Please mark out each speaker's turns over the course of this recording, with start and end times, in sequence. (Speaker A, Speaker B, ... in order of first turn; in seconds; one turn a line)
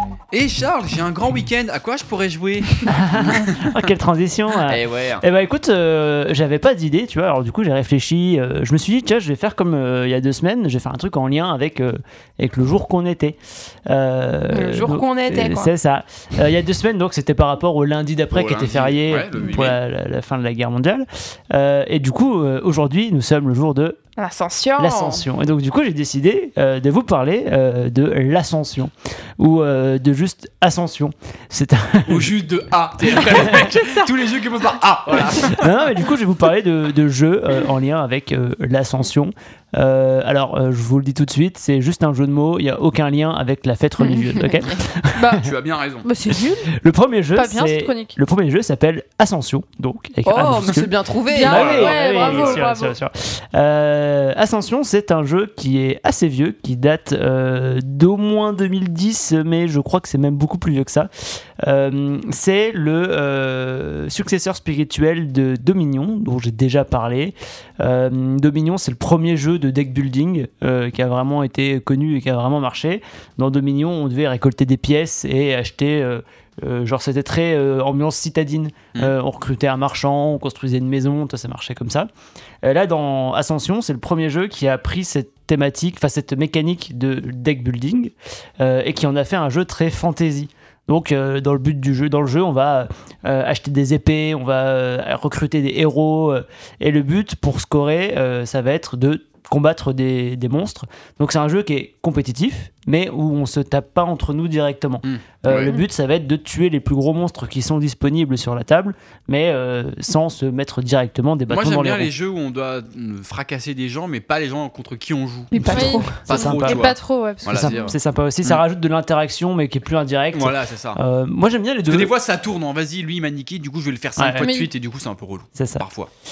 Speaker A: 0.3-3.9
Speaker B: 2.9-24.0
Speaker A: 4.6-5.2
Speaker C: 14.5-15.7
Speaker A: 18.3-19.8
Speaker C: 24.2-25.3
Speaker B: 24.8-32.4
Speaker A: 32.1-35.7
Speaker B: 33.1-33.7
Speaker B: 35.2-45.5
Speaker D: 45.2-45.5
Speaker A: 45.4-46.1
Speaker D: 46.0-46.7
Speaker B: 46.8-61.1
Speaker D: 47.4-48.2
Speaker C: 50.2-52.2
Speaker D: 51.3-53.0
Speaker A: 51.5-52.6
Speaker B: 61.6-82.1
Speaker B: 82.6-112.1
Speaker A: 105.0-105.7
Speaker A: 111.5-117.9
Speaker D: 115.5-117.8
Speaker B: 115.5-116.9
Speaker B: 117.4-122.2
Speaker A: 120.3-121.0
Speaker A: 121.9-126.1
Speaker B: 124.2-124.5
Speaker C: 124.4-124.7
Speaker B: 125.5-125.9